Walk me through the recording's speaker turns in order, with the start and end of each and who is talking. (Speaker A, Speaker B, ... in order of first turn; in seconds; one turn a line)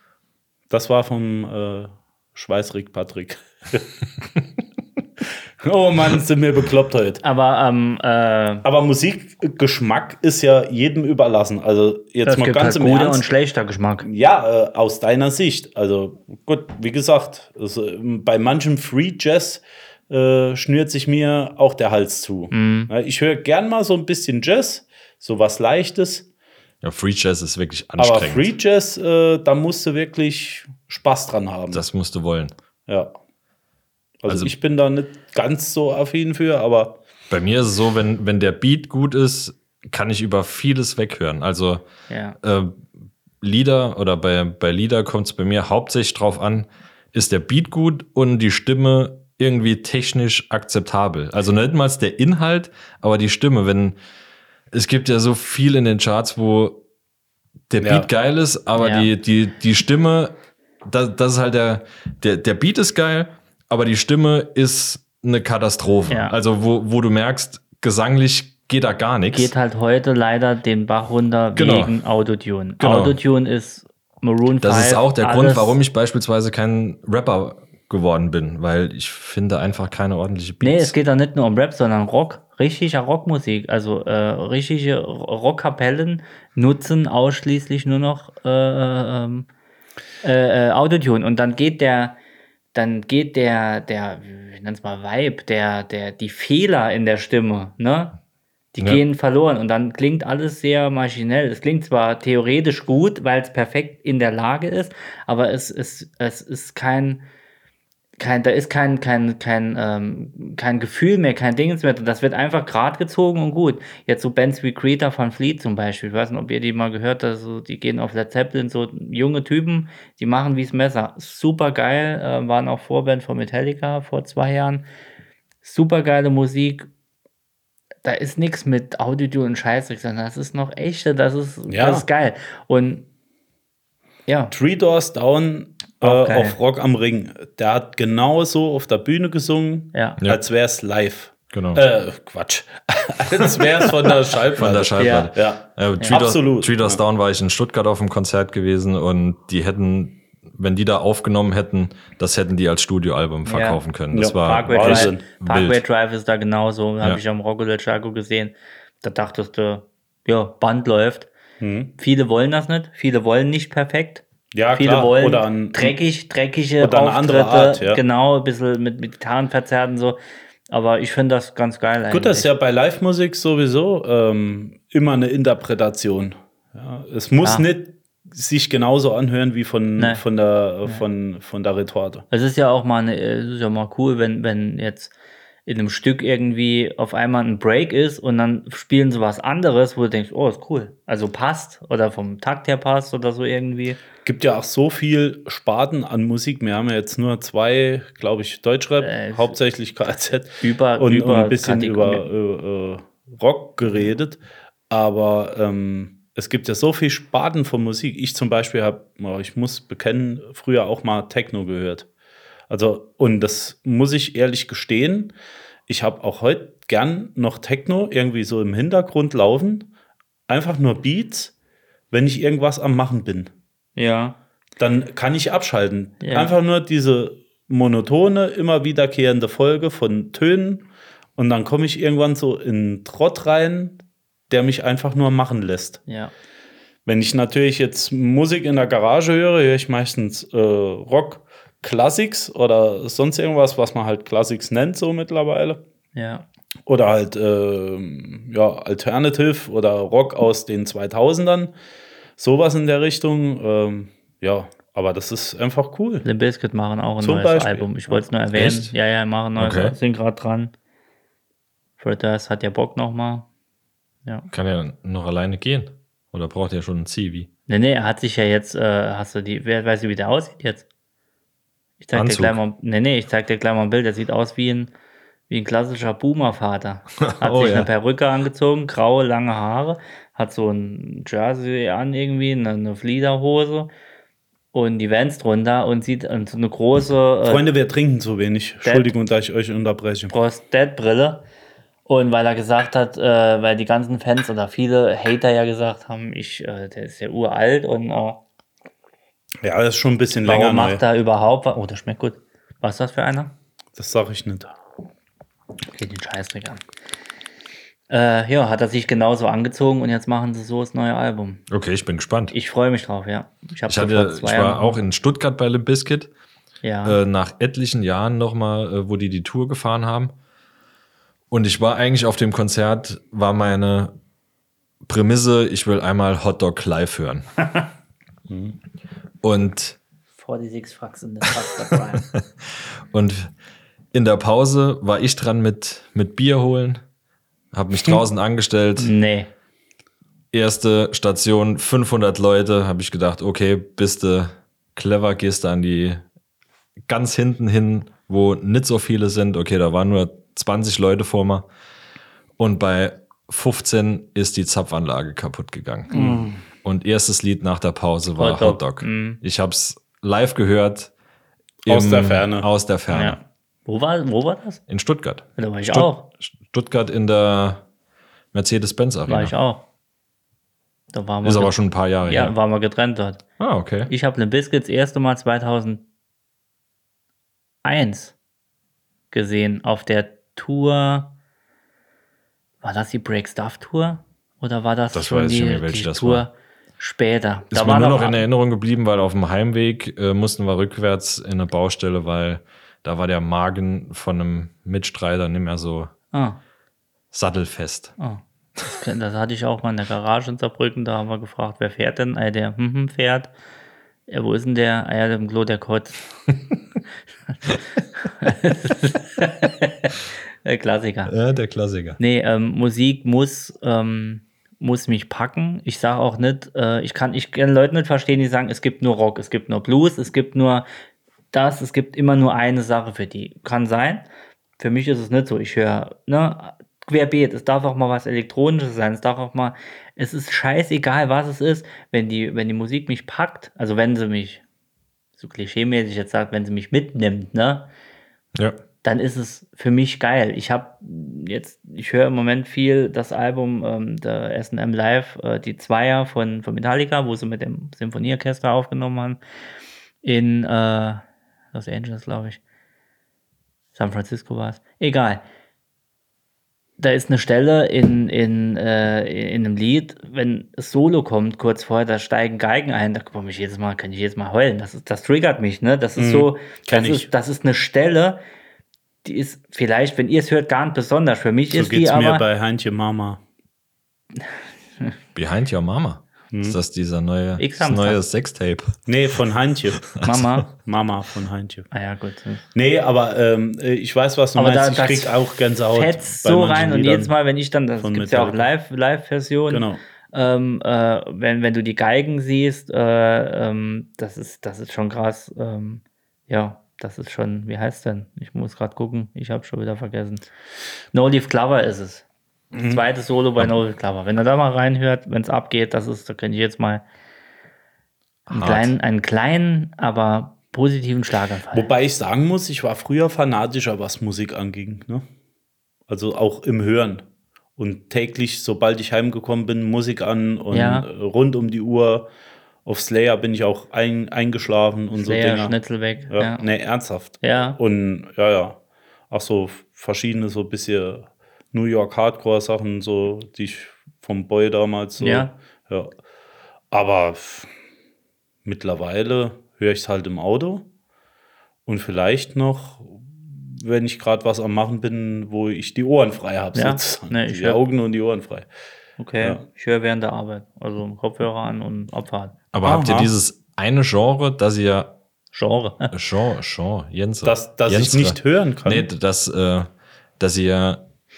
Speaker A: 0.7-3.9
Speaker A: 5.6-7.2
Speaker B: 7.2-8.7
Speaker A: 8.6-13.2
Speaker B: 12.2-14.1
Speaker A: 14.0-26.3
Speaker B: 22.5-22.9
Speaker C: 26.8-28.5
Speaker A: 28.0-31.8
Speaker C: 31.7-32.5
Speaker A: 34.2-37.0
Speaker C: 34.3-34.5
Speaker C: 37.3-41.9
Speaker B: 42.1-42.4
Speaker C: 42.4-42.9
Speaker C: 43.4-54.0
Speaker C: 54.7-56.8
Speaker C: 57.7-69.5
Speaker A: 57.8-58.1
Speaker B: 58.8-59.1
Speaker B: 66.1-66.3
Speaker B: 69.3-75.8
Speaker C: 71.6-72.0
Speaker C: 72.8-73.2
Speaker C: 74.6-80.9
Speaker B: 80.6-89.5
Speaker B: 90.2-92.2
Speaker B: 92.7-98.2
Speaker B: 98.7-107.2
Speaker B: 108.2-124.8
Speaker B: 125.6-126.9
Speaker B: 128.0-133.1
Speaker A: 131.7-132.1
Speaker B: 134.3-134.5
Speaker A: 134.5-147.0
Speaker B: 136.0-136.6
Speaker B: 139.9-140.2
Speaker C: 141.5-141.8
Speaker C: 144.6-155.8
Speaker B: 145.0-145.3
Speaker B: 153.4-153.8
Speaker A: 154.1-155.2
Speaker B: 154.4-161.3
Speaker A: 161.6-161.9
Speaker B: 162.0-170.2
Speaker A: 164.5-166.0
Speaker A: 166.8-168.0
Speaker B: 170.7-172.5
Speaker A: 172.1-182.3
Speaker B: 177.4-177.7
Speaker B: 180.0-180.2
Speaker B: 182.3-185.1
Speaker B: 185.7-194.0
Speaker A: 194.2-212.1
Speaker B: 199.0-199.6
Speaker B: 200.6-202.3
Speaker A: 212.7-215.3
Speaker A: 215.9-219.9
Speaker A: 220.5-221.5
Speaker A: 222.1-223.5
Speaker B: 224.0-224.4
Speaker A: 224.8-236.0
Speaker B: 226.2-226.6
Speaker B: 236.1-236.3
Speaker A: 237.1-245.8
Speaker B: 246.2-246.5
Speaker A: 246.9-251.7
Speaker A: 252.4-256.2
Speaker B: 256.2-260.7
Speaker A: 257.2-258.3
Speaker C: 258.5-258.9
Speaker C: 259.6-260.0
Speaker B: 262.0-263.5
Speaker C: 264.5-267.5
Speaker B: 267.7-270.9
Speaker B: 272.0-274.9
Speaker C: 272.1-272.6
Speaker B: 275.5-283.9
Speaker C: 277.2-277.9
Speaker B: 284.7-287.6
Speaker A: 287.4-290.3
Speaker B: 288.8-289.1
Speaker B: 290.3-291.4
Speaker B: 292.1-298.4
Speaker A: 299.6-301.0
Speaker B: 300.4-303.5
Speaker A: 304.0-304.7
Speaker B: 305.9-306.8
Speaker B: 308.1-311.6
Speaker C: 311.7-312.5
Speaker B: 312.5-315.0
Speaker C: 313.9-316.3
Speaker B: 316.8-317.2
Speaker C: 317.1-320.3
Speaker C: 321.5-324.1
Speaker C: 325.1-327.5
Speaker A: 328.5-328.8
Speaker C: 329.4-330.0
Speaker B: 330.4-332.3
Speaker C: 333.1-333.5
Speaker C: 334.1-337.0
Speaker C: 337.7-339.1
Speaker B: 339.0-339.5
Speaker C: 340.5-346.2
Speaker C: 347.1-351.7
Speaker C: 352.6-361.1
Speaker B: 356.1-356.6
Speaker A: 356.2-356.5
Speaker B: 358.4-359.4
Speaker A: 361.9-362.7
Speaker C: 361.9-363.4
Speaker B: 363.1-364.8
Speaker C: 364.9-367.8
Speaker B: 365.6-366.3
Speaker C: 368.5-369.6
Speaker B: 369.3-369.9
Speaker B: 371.1-373.4
Speaker C: 371.4-372.6
Speaker C: 373.6-374.1
Speaker B: 374.1-376.0
Speaker B: 377.8-378.4
Speaker B: 379.3-381.3
Speaker B: 382.8-388.4
Speaker C: 385.1-386.5
Speaker C: 387.7-396.1
Speaker B: 396.3-396.6
Speaker C: 397.3-398.1
Speaker B: 398.9-403.5
Speaker B: 404.3-406.2
Speaker B: 407.7-411.3
Speaker C: 411.3-412.2
Speaker B: 412.2-420.9
Speaker B: 421.5-424.3
Speaker B: 424.8-434.6
Speaker B: 435.4-437.9
Speaker B: 439.0-449.4
Speaker B: 450.2-451.2
Speaker B: 451.7-452.6
Speaker B: 453.9-455.4
Speaker B: 457.0-468.4
Speaker A: 466.2-467.3
Speaker B: 469.2-472.4
Speaker A: 471.7-473.4
Speaker C: 475.4-479.0
Speaker A: 476.5-476.8
Speaker B: 477.6-478.2
Speaker A: 479.1-480.1
Speaker B: 480.2-480.7
Speaker A: 480.7-481.9
Speaker B: 481.9-482.6
Speaker A: 482.7-487.3
Speaker B: 484.6-485.4
Speaker B: 485.9-500.5
Speaker A: 488.0-488.6
Speaker A: 489.7-490.0
Speaker B: 501.1-502.2
Speaker A: 502.7-503.0
Speaker B: 502.9-507.1
Speaker C: 508.5-508.9
Speaker B: 508.5-511.9
Speaker A: 511.7-515.2
Speaker A: 516.1-517.2
Speaker A: 517.8-522.3
Speaker B: 520.7-521.1
Speaker A: 522.9-525.8
Speaker B: 525.1-526.7
Speaker A: 526.3-528.8
Speaker B: 527.4-527.8
Speaker A: 529.3-536.1
Speaker B: 535.2-535.5
Speaker A: 536.9-537.7
Speaker A: 538.6-540.9
Speaker A: 541.9-548.7
Speaker B: 546.7-547.8
Speaker B: 549.2-552.5
Speaker C: 552.7-555.1
Speaker A: 552.8-553.3
Speaker B: 555.5-556.1
Speaker C: 556.1-561.0
Speaker A: 557.4-559.1